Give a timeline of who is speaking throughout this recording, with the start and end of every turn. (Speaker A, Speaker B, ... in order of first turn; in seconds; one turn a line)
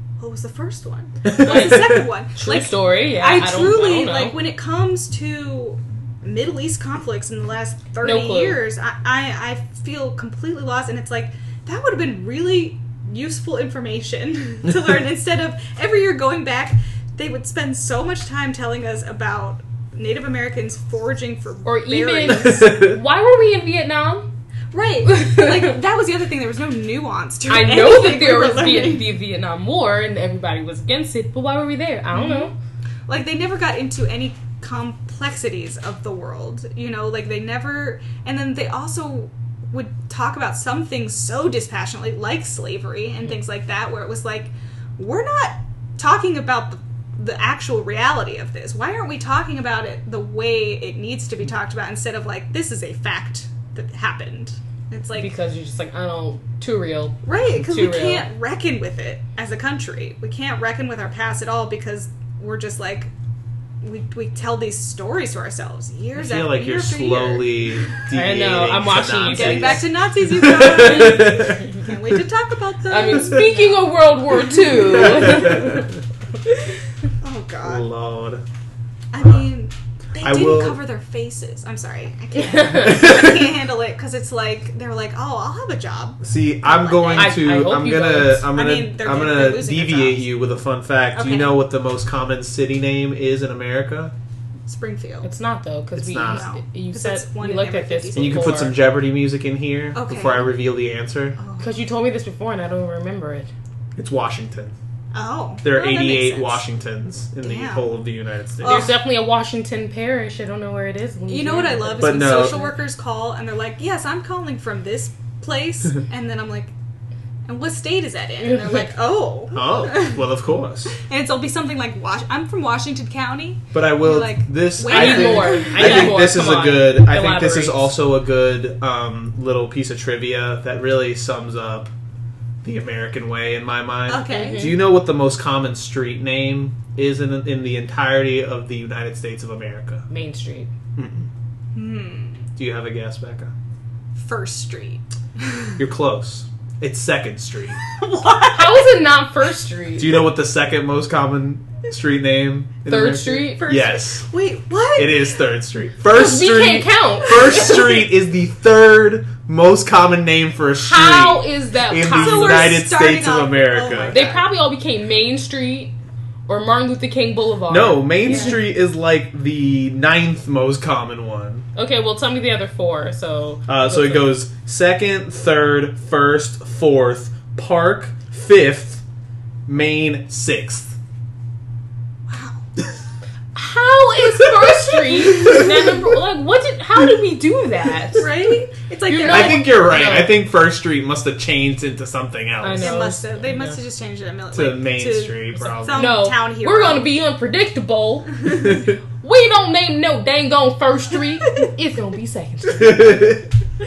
Speaker A: 0.2-22.7
Speaker B: 1.4-1.7
Speaker C: 1.4-4.4
Speaker C: 8.0-8.6
Speaker C: 21.6-24.3
Speaker B: 22.4-22.9
Speaker A: 24.7-29.1
Speaker C: 25.1-25.7
Speaker C: 27.5-32.5
Speaker A: 32.1-32.5
Speaker A: 33.1-55.3
Speaker C: 55.1-58.3
Speaker A: 57.2-63.1
Speaker A: 63.8-67.8
Speaker B: 66.2-71.7
Speaker C: 68.1-69.9
Speaker A: 69.2-73.8
Speaker C: 72.9-75.9
Speaker A: 74.8-75.6
Speaker B: 75.0-75.8
Speaker A: 77.2-77.9
Speaker B: 77.6-78.4
Speaker A: 79.1-87.7
Speaker B: 80.2-80.8
Speaker C: 82.4-83.1
Speaker B: 86.2-94.1
Speaker C: 87.2-88.5
Speaker A: 88.5-90.3
Speaker A: 91.1-91.5
Speaker A: 94.7-95.3
Speaker C: 95.2-98.8
Speaker B: 96.0-96.5
Speaker A: 96.1-98.7
Speaker B: 98.1-101.4
Speaker A: 99.9-100.5
Speaker A: 101.4-101.7
Speaker C: 101.6-103.5
Speaker B: 104.0-104.8
Speaker A: 105.1-106.6
Speaker B: 105.6-108.9
Speaker A: 107.4-107.9
Speaker A: 108.6-109.0
Speaker C: 108.6-112.7
Speaker A: 111.3-116.7
Speaker B: 112.0-112.6
Speaker A: 117.5-120.2
Speaker C: 118.4-118.9
Speaker B: 119.5-120.9
Speaker A: 120.9-126.2
Speaker B: 123.7-131.9
Speaker C: 124.9-127.9
Speaker B: 132.6-140.1
Speaker A: 134.1-134.8
Speaker C: 134.3-134.8
Speaker C: 140.1-140.7
Speaker B: 140.9-141.3
Speaker A: 141.8-142.4
Speaker B: 142.6-143.5
Speaker A: 144.1-145.7
Speaker B: 145.8-147.8
Speaker A: 147.9-148.8
Speaker C: 148.5-150.2
Speaker B: 150.0-154.3
Speaker C: 152.9-153.7
Speaker A: 153.6-155.4
Speaker B: 155.0-164.2
Speaker C: 156.1-157.8
Speaker C: 160.8-162.8
Speaker A: 162.1-164.5
Speaker C: 164.1-165.9
Speaker C: 166.5-168.6
Speaker B: 167.7-171.7
Speaker A: 168.3-168.6
Speaker C: 171.8-174.3
Speaker B: 173.7-179.0
Speaker B: 179.7-181.0
Speaker A: 182.3-182.6
Speaker C: 183.6-188.3
Speaker A: 188.2-189.8
Speaker C: 189.1-190.4
Speaker B: 189.3-193.0
Speaker C: 192.6-193.8
Speaker A: 192.8-197.1
Speaker B: 194.5-196.2
Speaker C: 195.9-203.4
Speaker B: 202.7-203.5